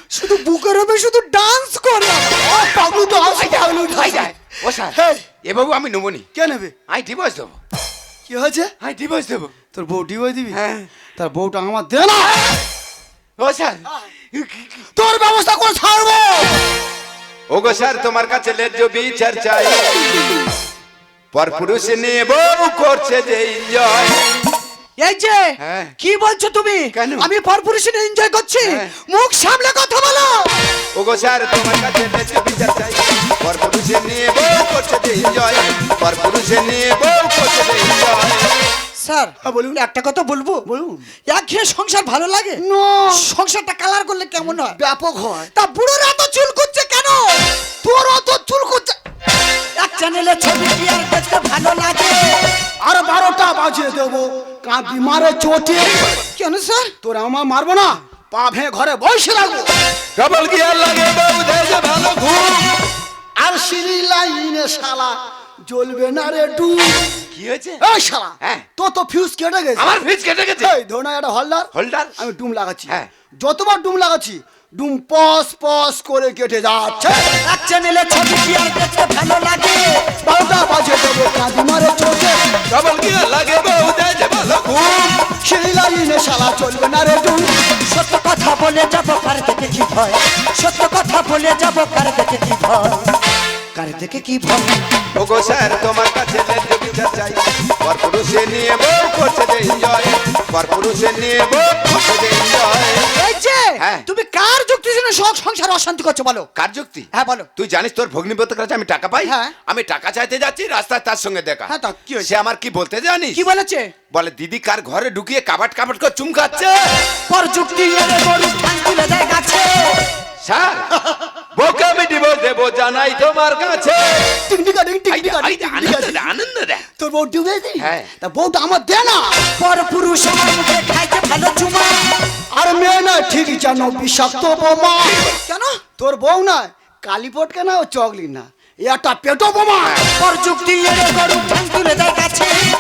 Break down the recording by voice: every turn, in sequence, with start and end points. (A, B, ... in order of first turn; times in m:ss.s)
0:00.1-0:02.5 A
0:02.4-0:05.3 B
0:03.2-0:06.3 C
0:06.3-0:06.8 B
0:06.9-0:07.6 C
0:08.3-0:08.7 B
0:08.8-0:09.5 C
0:09.7-0:10.6 B
0:10.5-0:10.9 C
0:11.2-0:12.4 B
0:13.4-0:14.8 C
0:15.0-0:16.8 B
0:17.5-0:20.0 C
0:21.3-0:24.3 C
0:25.0-0:30.5 A
0:25.6-0:25.9 C
0:26.9-0:27.3 C
0:31.0-0:38.5 C
0:39.0-0:40.6 A
0:39.5-0:39.8 B
0:40.7-0:41.1 B
0:41.3-0:44.8 A
0:42.6-0:43.2 B
0:44.5-0:45.5 B
0:45.5-0:47.4 A
0:47.8-0:49.0 B
0:49.8-0:52.6 A
0:52.8-0:56.1 B
0:56.4-0:56.9 A
0:57.0-0:59.7 B
1:00.2-1:02.8 C
1:03.4-1:07.2 B
1:07.3-1:07.8 C
1:07.8-1:09.9 B
1:09.8-1:10.8 C
1:10.6-1:17.3 B
1:11.7-1:12.2 C
1:17.3-1:20.1 A
1:20.2-1:22.5 B
1:22.7-1:25.2 C
1:25.4-1:27.6 B
1:27.8-1:33.1 A
1:33.8-1:34.9 A
1:35.2-1:43.1 C
1:43.1-1:46.5 A
1:43.8-1:44.0 C
1:46.6-1:53.4 C
1:47.1-1:47.5 A
1:49.2-1:49.5 A
1:51.7-1:52.3 A
1:53.3-1:53.9 A
1:54.1-1:56.8 C
1:57.3-2:00.1 A
2:00.4-2:00.9 C
2:01.6-2:04.4 C
2:04.4-2:06.3 B
2:05.1-2:06.8 C
2:07.0-2:09.4 B
2:07.8-2:08.1 C
2:09.6-2:12.1 A
2:12.5-2:15.3 B
2:15.3-2:15.8 A
2:16.0-2:20.0 B
2:19.8-2:20.1 C
2:20.1-2:22.7 A